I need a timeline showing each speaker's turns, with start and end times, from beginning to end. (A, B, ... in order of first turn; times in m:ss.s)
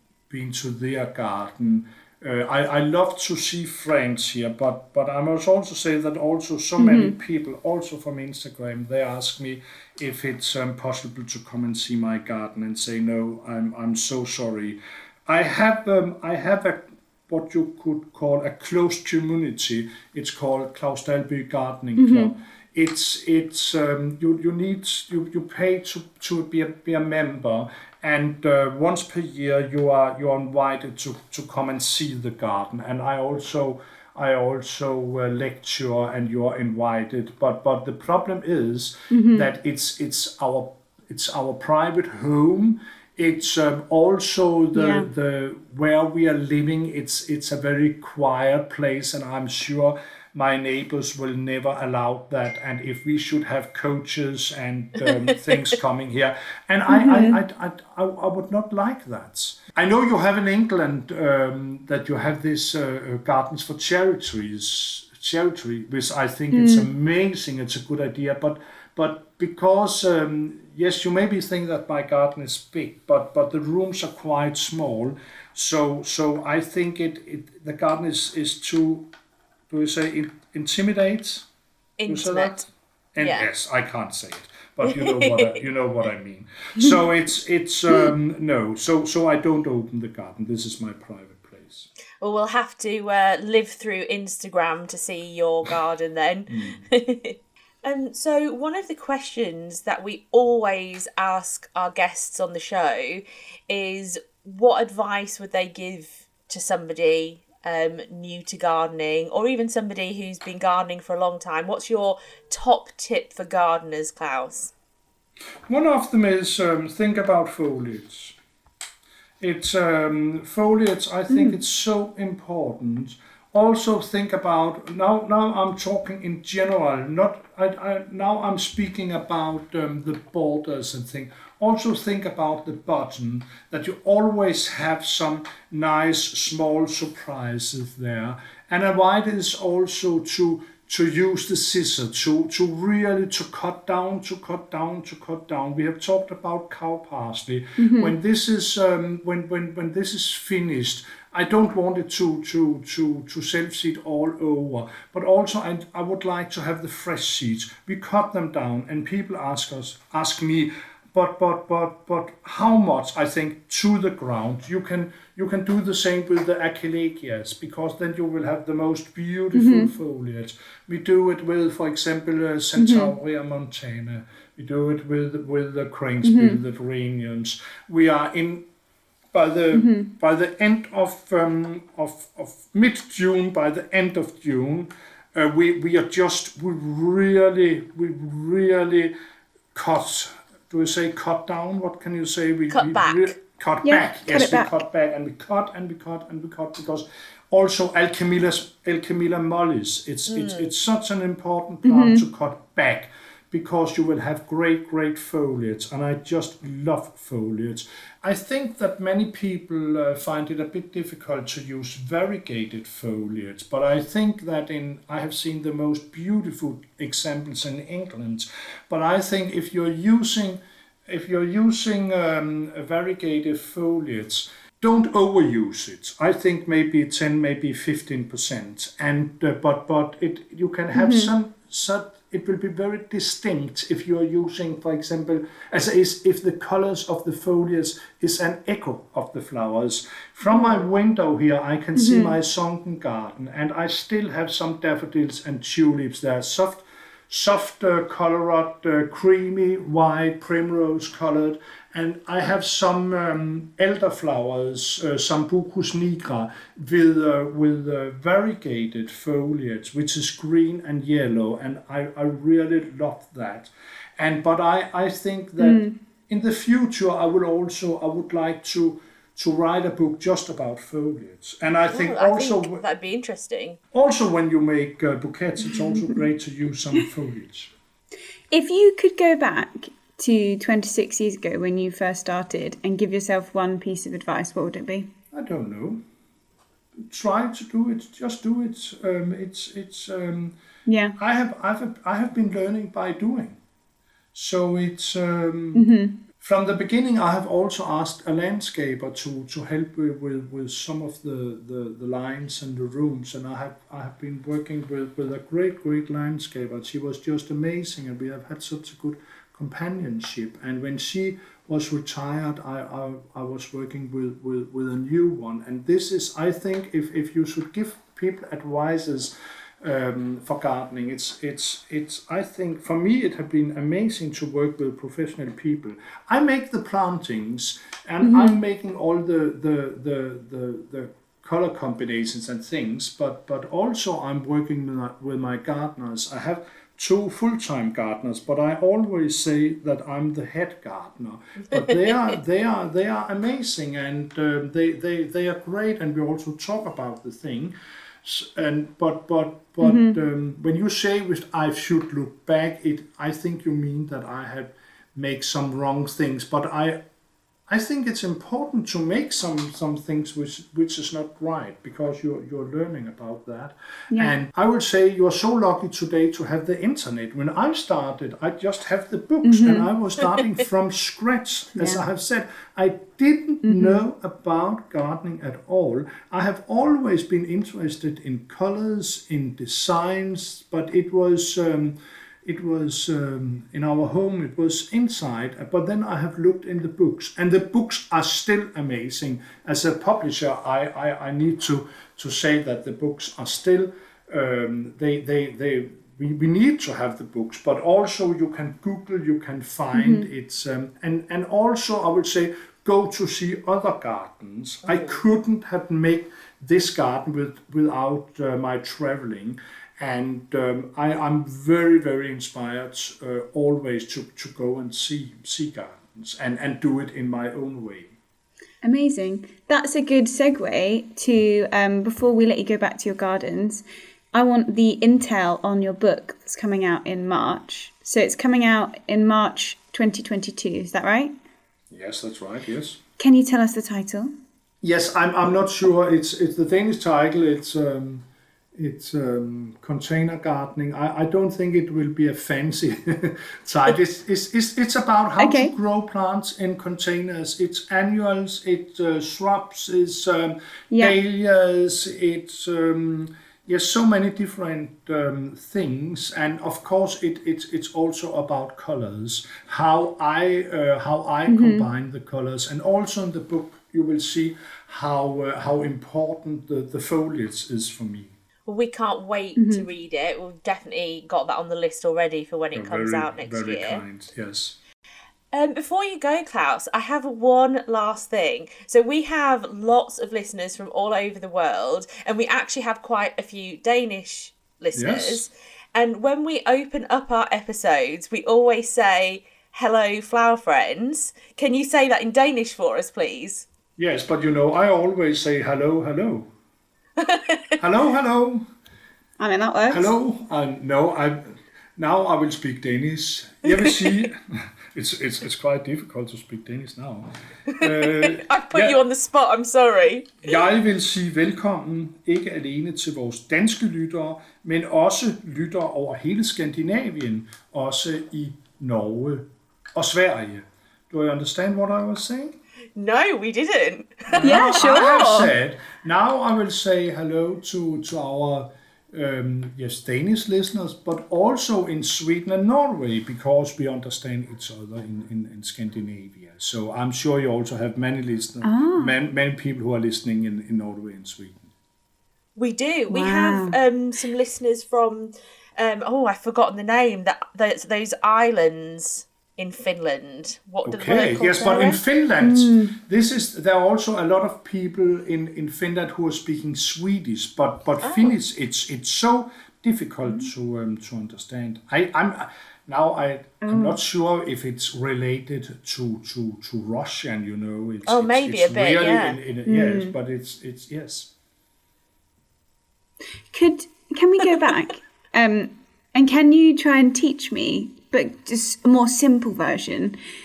0:00.3-1:19.1 A
0:06.8-0:07.2 B
0:22.0-0:22.4 B
0:39.1-0:39.5 B
0:44.8-0:45.1 B
0:56.9-0:57.4 B
1:06.5-1:06.9 B
1:19.7-1:21.5 A
1:22.0-1:22.6 C
1:22.1-1:31.9 A
1:23.2-1:23.5 C
1:24.8-1:25.6 C
1:32.2-1:54.7 C
1:36.5-1:36.8 A
1:55.7-1:58.4 A
1:59.4-2:58.7 A
2:01.3-2:01.6 B
2:27.8-2:28.2 B
2:49.6-2:49.9 B
2:52.8-2:53.1 B
2:56.2-2:56.6 B
2:59.3-3:09.1 A
2:59.7-3:00.1 B
3:09.7-4:32.8 A
3:12.7-3:13.4 C
3:13.8-3:14.7 B
3:20.3-3:20.7 C
3:21.8-3:22.2 B
3:51.0-3:51.3 B
4:00.5-4:00.8 B
4:02.0-4:02.4 B
4:25.6-4:25.9 B
4:31.9-4:33.8 C
4:33.9-4:37.7 A
4:35.7-4:36.2 B
4:38.5-4:45.1 B
4:45.3-4:46.0 A
4:47.0-4:50.6 A
4:50.9-4:51.2 B
4:51.2-4:53.6 A
4:54.4-4:55.9 A
4:55.7-4:56.2 B
4:56.4-5:47.7 A
5:28.2-5:28.6 B
5:48.2-5:57.0 A
5:49.8-5:50.2 B
5:57.7-6:58.2 A
6:09.4-6:09.9 B
6:11.8-6:12.0 B
6:13.6-6:14.0 B
6:39.9-6:40.3 B
6:58.8-7:11.3 B
7:11.9-7:13.0 A
7:13.2-7:14.3 B
7:14.8-7:48.4 A
7:25.4-7:25.7 B
7:30.9-7:31.2 B
7:41.5-7:41.9 B
7:48.7-7:54.0 C
7:49.6-7:49.9 B
7:52.7-7:54.8 A
7:55.5-8:13.7 C
8:05.0-8:05.4 A
8:14.0-8:16.5 A
8:17.2-8:17.6 C
8:17.8-8:18.6 A
8:19.4-8:20.1 B
8:19.9-8:21.4 A
8:22.0-8:24.4 A
8:23.6-8:23.9 C
8:24.9-8:27.3 A
8:27.7-8:30.5 C
8:27.8-8:29.0 A
8:30.4-8:42.6 A
8:43.0-8:45.0 C
8:44.3-9:01.6 A
8:44.4-8:45.5 B
8:58.6-8:59.2 B
9:02.6-9:12.0 C
9:03.1-9:03.8 B
9:10.8-9:31.3 A
9:12.4-9:13.0 B
9:18.0-9:18.3 C
9:23.6-9:24.0 B
9:28.1-9:29.4 C
9:29.7-9:30.2 B
9:33.5-9:40.2 B